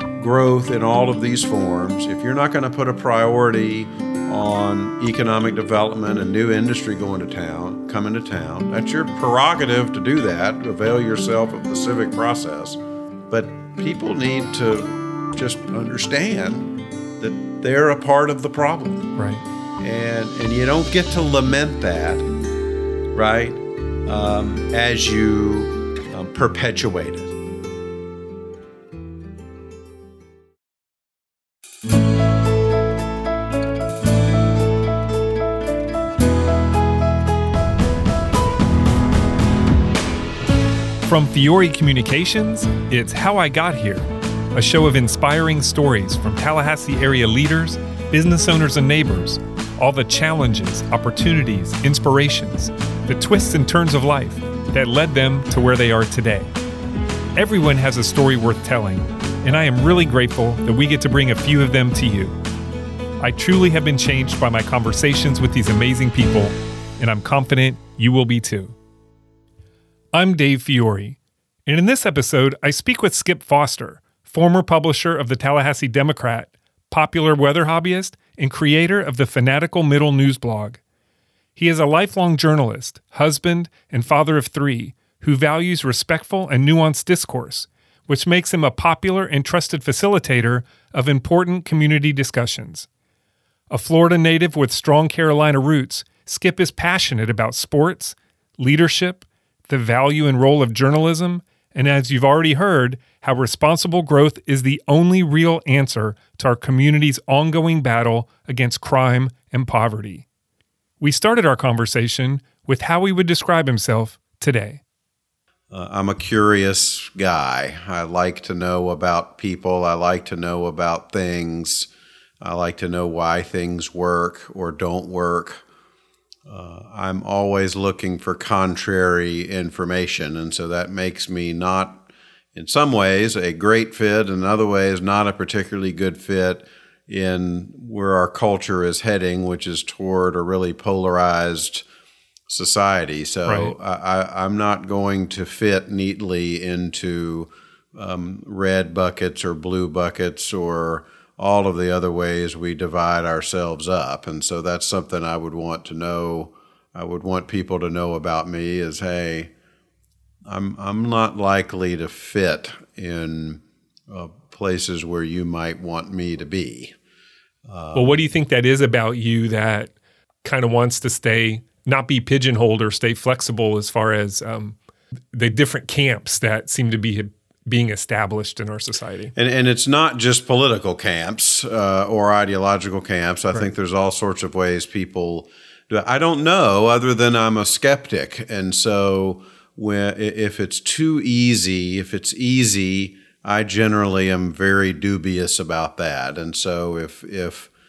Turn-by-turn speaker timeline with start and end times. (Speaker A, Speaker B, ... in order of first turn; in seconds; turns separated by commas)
Speaker A: 0.2-19.1, Speaker B: 19.2-19.4, Speaker A: 19.8-22.3, Speaker A: 23.1-27.3, Speaker B: 41.0-56.5, Speaker B: 57.4-62.4, Speaker B: 63.2-68.8, Speaker B: 70.1-80.8, Speaker B: 81.6-92.9, Speaker B: 93.7-110.3, Speaker B: 111.0-114.8, Speaker A: 115.7-121.9, Speaker A: 122.4-125.6, Speaker A: 126.5-141.8, Speaker A: 142.5-159.5, Speaker B: 143.5-143.7, Speaker A: 160.5-166.9, Speaker A: 167.7-168.2, Speaker B: 167.9-169.9, Speaker B: 170.4-174.8, Speaker B: 175.3-179.3, Speaker A: 179.3-197.7